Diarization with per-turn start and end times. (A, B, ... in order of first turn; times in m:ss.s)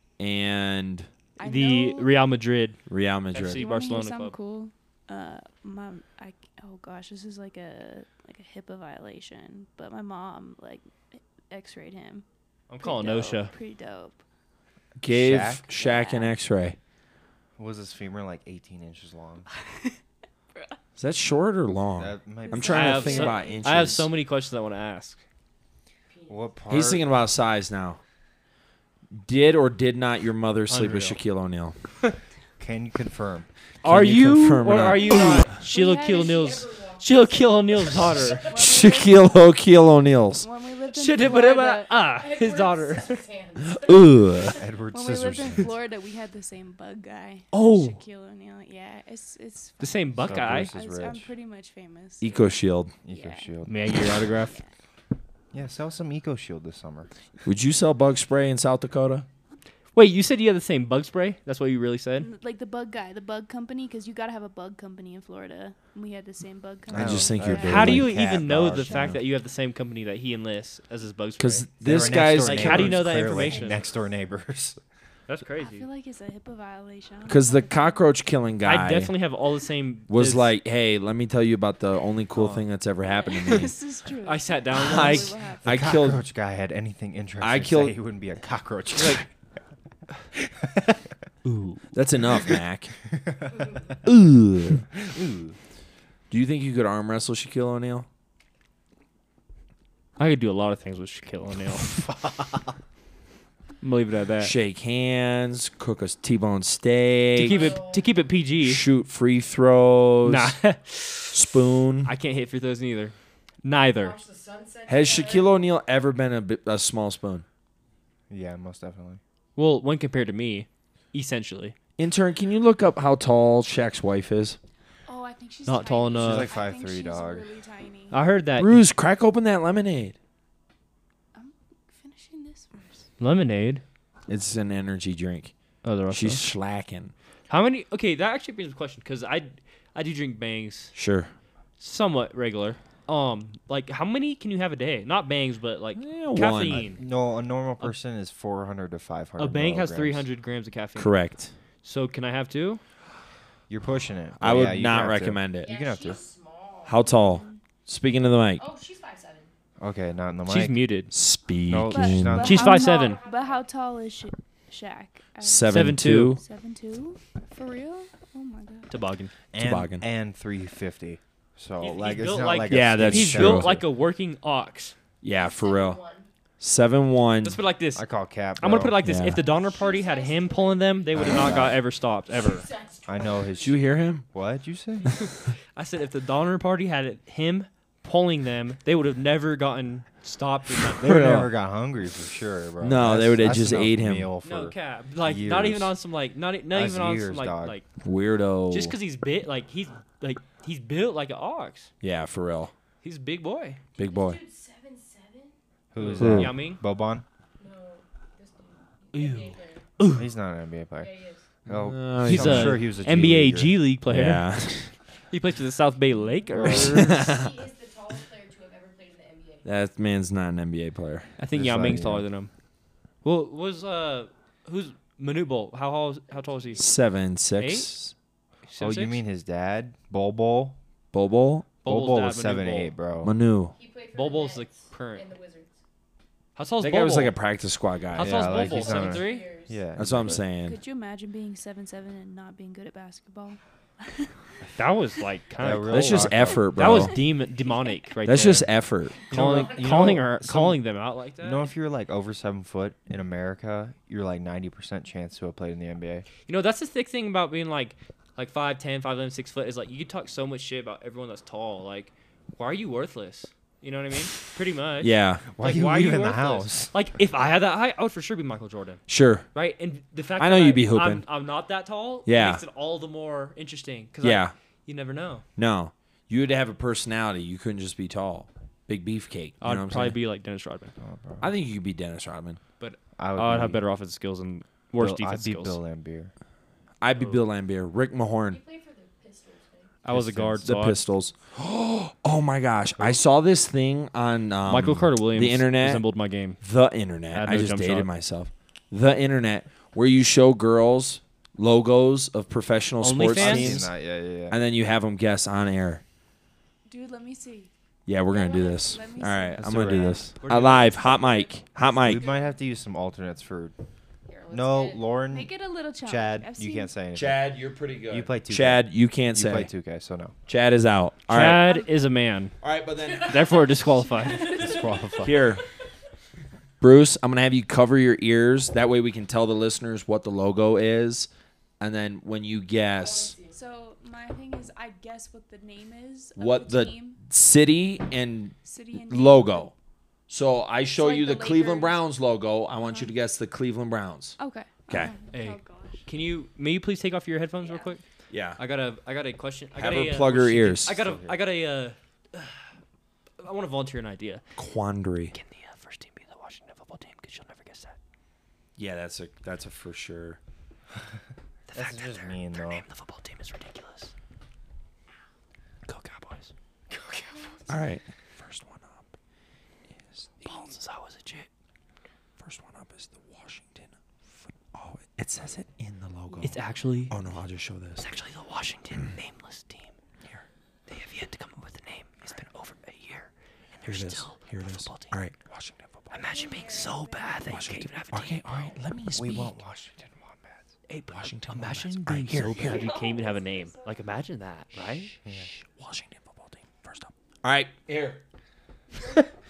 0:00.2-0:01.1 A
0:01.4-0:02.2 B
0:01.4-0:02.8 C
0:02.9-0:03.6 A
0:03.3-0:04.4 C
0:03.4-0:12.2 B
0:12.7-0:13.5 C
0:12.8-0:14.2 B
0:15.0-0:16.8 A
0:15.1-0:15.6 D
0:15.7-0:16.3 B
0:17.6-0:19.4 D
0:19.6-0:19.9 B
0:21.0-0:24.1 A
0:22.0-0:22.8 D
0:22.4-0:23.9 B
0:22.7-0:25.2 C
0:26.3-0:27.1 D
0:26.7-0:28.0 A
0:29.1-0:31.8 A
0:30.7-0:31.2 C
0:32.6-0:33.5 D
0:33.8-0:35.5 A
0:33.8-0:38.5 C
0:35.3-0:38.7 E
0:35.9-0:36.2 B
0:38.4-0:39.4 B
0:38.5-0:40.4 A
0:40.3-0:42.0 B
0:40.9-0:43.3 C
0:42.0-0:44.6 E
0:43.6-0:44.6 A
0:44.5-0:45.7 D
0:44.9-0:52.6 B
0:47.5-0:48.0 C
0:49.8-0:50.7 C
0:50.2-0:51.3 D
0:52.2-0:52.9 A
0:53.0-0:54.0 D
0:53.1-0:53.5 B
0:53.7-0:54.6 C
0:55.5-0:57.1 D
0:57.4-0:59.2 A
0:59.9-1:02.3 C
1:02.2-1:08.0 B
1:06.9-1:08.3 A
1:06.9-1:09.2 D
1:07.6-1:13.8 C
1:08.9-1:09.1 A
1:11.4-1:13.3 A
1:11.8-1:14.8 D
1:15.3-1:15.9 C
1:15.6-1:18.1 B
1:17.3-1:19.1 A
1:18.6-1:20.5 C
1:20.1-1:23.8 A
1:23.0-1:25.7 B
1:24.2-1:25.3 C
1:24.7-1:26.2 A
1:25.6-1:29.3 D
1:27.4-1:27.9 A
1:29.0-1:29.2 C
1:30.4-1:30.9 D
1:31.4-1:31.9 C
1:31.9-1:32.9 A
1:34.0-1:34.9 A
1:35.0-1:35.6 D
1:36.3-1:38.1 A
1:40.2-1:41.9 C
1:41.8-1:42.7 D
1:43.8-1:44.5 C
1:44.4-1:47.8 A
1:47.4-1:48.8 C
1:47.4-1:48.0 E
1:48.6-1:50.6 A
1:50.2-1:51.4 C
1:51.3-1:52.1 A
1:52.0-1:54.2 C
1:54.0-1:55.7 E
1:54.9-1:57.4 A
1:58.3-1:59.2 D
1:59.6-2:01.7 C
2:02.0-2:04.6 A
2:05.1-2:08.2 B
2:05.6-2:06.5 C
2:06.2-2:07.5 D
2:08.1-2:08.7 C
2:08.6-2:10.2 A
2:11.3-2:13.0 B
2:13.2-2:13.8 C
2:14.3-2:15.5 A
2:15.8-2:16.5 C
2:16.1-2:17.1 A
2:17.5-2:20.9 C
2:20.9-2:21.3 A
2:21.8-2:27.0 C
2:26.0-2:26.9 A
2:26.7-2:30.2 D
2:29.4-2:31.1 C
2:31.0-2:31.5 A
2:31.8-2:32.8 C
2:33.7-2:36.2 D
2:34.4-2:35.7 A
2:35.6-2:37.0 E
2:36.8-2:38.6 A
2:37.1-2:37.6 B
2:38.6-2:39.5 E
2:39.8-2:40.8 D
2:40.5-2:41.1 C
2:41.1-2:42.6 A
2:41.7-2:42.8 D
2:41.9-2:48.9 B
2:42.4-2:43.2 C
2:42.9-2:43.7 E
2:45.4-2:46.4 A
2:45.7-2:46.4 C
2:48.9-2:49.3 C
2:49.5-2:53.8 D
2:49.6-2:50.0 A
2:51.8-2:54.9 C
2:52.7-2:53.7 A
2:55.2-2:56.0 A
2:55.4-2:56.3 E
2:56.6-2:57.6 A
2:57.4-2:58.1 C
2:57.9-2:59.1 D
2:58.6-3:02.7 C
2:59.0-2:59.4 A
2:59.4-3:01.7 E
3:01.1-3:01.8 D
3:02.3-3:03.8 E
3:03.0-3:05.1 D
3:03.6-3:04.2 A
3:05.7-3:11.0 C
3:11.0-3:11.5 A
3:11.0-3:15.9 D
3:12.8-3:14.3 A
3:14.4-3:17.8 C
3:16.7-3:17.8 D
3:18.0-3:18.9 A
3:18.7-3:21.9 C
3:22.0-3:22.7 A
3:23.0-3:23.8 C
3:24.0-3:24.4 A
3:24.0-3:25.5 E
3:25.9-3:27.2 D
3:26.0-3:26.8 C
3:26.2-3:26.5 A
3:27.6-3:29.8 E
3:29.1-3:30.3 C
3:30.1-3:33.8 D
3:31.0-3:31.4 E
3:31.7-3:33.3 A
3:32.2-3:34.5 C
3:34.1-3:34.9 A
3:35.3-3:37.3 C
3:36.5-3:36.9 D
3:36.6-3:37.5 A
3:37.0-3:39.6 E
3:39.6-3:41.3 A
3:41.4-3:42.5 C
3:41.5-3:42.2 D
3:43.2-3:46.9 C
3:46.3-3:46.9 E
3:46.8-3:48.1 A
3:47.6-3:47.9 C
3:48.7-3:49.2 C
3:48.8-3:50.8 D
3:51.1-3:51.7 A
3:51.8-3:52.9 C
3:51.8-3:53.3 D
3:53.2-3:53.7 A
3:53.7-3:55.7 E
3:54.1-3:55.3 C
3:56.6-3:57.3 C
3:56.8-3:58.6 A
3:58.1-3:59.5 C
3:58.2-4:00.4 D
3:58.5-3:59.8 E
4:00.0-4:00.8 A
4:00.6-4:04.3 B
4:04.8-4:08.7 C
4:05.6-4:07.0 D
4:05.9-4:07.2 A
4:07.7-4:07.9 B
4:08.2-4:09.3 A
4:09.2-4:11.7 C
4:09.3-4:10.8 D
4:09.3-4:10.0 E
4:11.4-4:16.3 D
4:16.5-4:29.0 C
4:25.0-4:25.4 A
4:25.5-4:26.9 D
4:29.1-4:29.5 A
4:29.5-4:35.4 C
4:30.4-4:31.2 A
4:32.2-4:32.6 A
4:34.2-4:34.5 A
4:35.6-4:40.2 A
4:39.6-4:40.9 C
4:41.0-4:41.5 D
4:41.4-4:42.6 A
4:42.8-4:45.8 C
4:43.2-4:43.8 D
4:45.0-4:46.3 D
4:47.0-4:48.6 A
4:47.2-4:47.4 C
4:48.4-4:49.9 E
4:50.0-4:51.0 C
4:50.1-4:50.6 D
4:50.6-4:56.1 A
4:54.6-4:56.6 C
4:56.6-5:03.9 A
4:57.3-4:58.1 C
5:03.0-5:03.8 C
5:03.3-5:04.6 D
5:04.5-5:06.0 A
5:06.9-5:07.7 B
5:08.0-5:12.2 A
5:08.3-5:10.2 B
5:09.6-5:10.2 D
5:10.4-5:11.2 C
5:12.0-5:13.7 D
5:12.0-5:12.5 E
5:14.3-5:15.2 E
5:14.5-5:15.5 D
5:15.3-5:16.9 B
5:16.0-5:17.4 D
5:17.1-5:19.7 A
5:18.1-5:20.3 D
5:20.5-5:21.7 A
5:21.3-5:22.5 C
5:21.6-5:21.9 B
5:22.6-5:23.6 A
5:23.0-5:25.3 E
5:23.2-5:24.7 C
5:24.2-5:24.8 B
5:24.4-5:25.5 D
5:25.2-5:25.6 A
5:26.8-5:31.3 A
5:31.8-5:33.4 A
5:32.9-5:33.6 E
5:33.5-5:37.2 B
5:36.4-5:39.7 A
5:38.6-5:39.7 B
5:40.3-5:44.4 A
5:40.9-5:42.0 B
5:42.8-5:43.1 B
5:44.4-5:46.0 B
5:45.3-5:48.0 C
5:48.3-5:48.6 A
5:48.6-5:52.6 C
5:49.8-5:51.0 A
5:50.8-5:51.5 D
5:53.4-5:54.4 C
5:54.6-5:55.3 A
5:55.3-5:58.0 C
5:58.8-6:00.4 A
6:01.7-6:04.1 C
6:01.7-6:02.8 D
6:05.8-6:06.5 C
6:06.9-6:07.7 E
6:07.7-6:09.0 A
6:10.4-6:11.5 C
6:12.4-6:13.9 A
6:14.4-6:16.5 A
6:16.4-6:17.1 C
6:17.1-6:18.1 A
6:18.0-6:19.9 C
6:20.9-6:25.2 C
6:23.8-6:26.1 A
6:26.1-6:28.7 C
6:26.3-6:27.4 B
6:27.5-6:29.6 A
6:29.1-6:30.7 D
6:30.9-6:35.1 C
6:31.1-6:32.9 A
6:32.5-6:34.0 B
6:35.2-6:35.5 D
6:35.3-6:38.2 A